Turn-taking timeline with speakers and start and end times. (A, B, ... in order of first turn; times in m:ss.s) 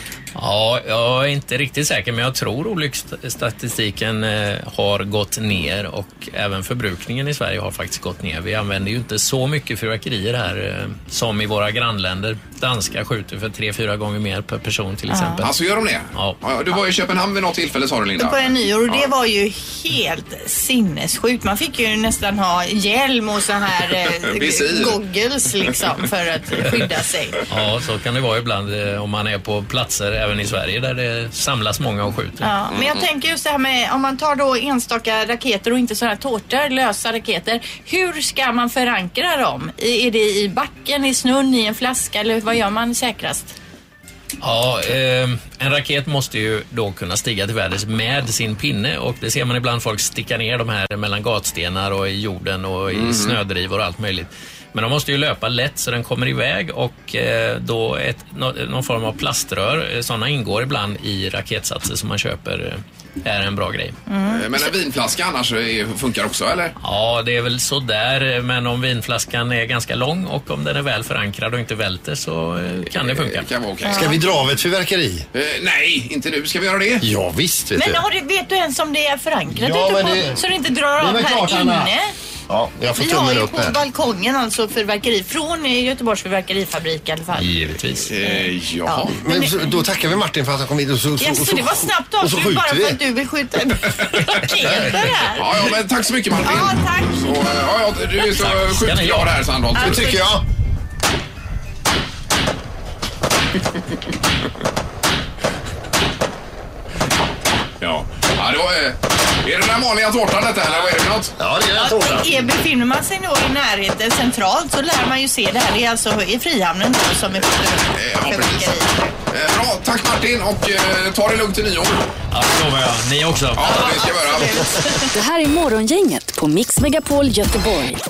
0:00.4-0:15.5 A
0:15.1-0:15.4 B
0:15.4-0:19.1 C
0:18.2-0:27.4 B
0:24.0-0:25.0 C
0:27.5-0:32.5 A
0:32.4-0:43.6 B
0:32.7-0:33.0 C
0:44.4-1:04.0 A
0:52.9-0:53.4 C
1:04.1-1:04.7 B
1:04.2-1:06.8 C
1:06.8-1:13.5 A
1:13.0-1:14.2 C
1:13.8-1:14.3 B
1:13.9-1:15.3 D
1:15.3-1:17.1 C
1:17.0-1:18.0 D
1:17.8-1:22.1 B
1:19.5-1:20.4 D
1:21.0-1:21.9 D
1:22.5-1:23.8 D
1:23.0-1:27.5 B
1:27.3-1:28.1 D
1:28.1-1:29.1 C
1:28.2-1:29.8 B
1:29.2-1:33.0 D
1:31.2-1:35.7 B
1:34.6-1:35.2 D
1:35.3-1:40.2 C
1:36.4-1:37.2 B
1:38.4-1:39.3 A
1:39.8-1:40.3 B
1:39.8-1:40.4 D
1:47.8-1:51.4 C
1:51.4-1:52.5 D
1:51.8-1:59.1 B
1:57.9-2:02.1 C
2:02.3-2:04.0 A
2:03.6-2:04.6 C
2:03.6-2:05.1 B
2:05.1-2:08.0 E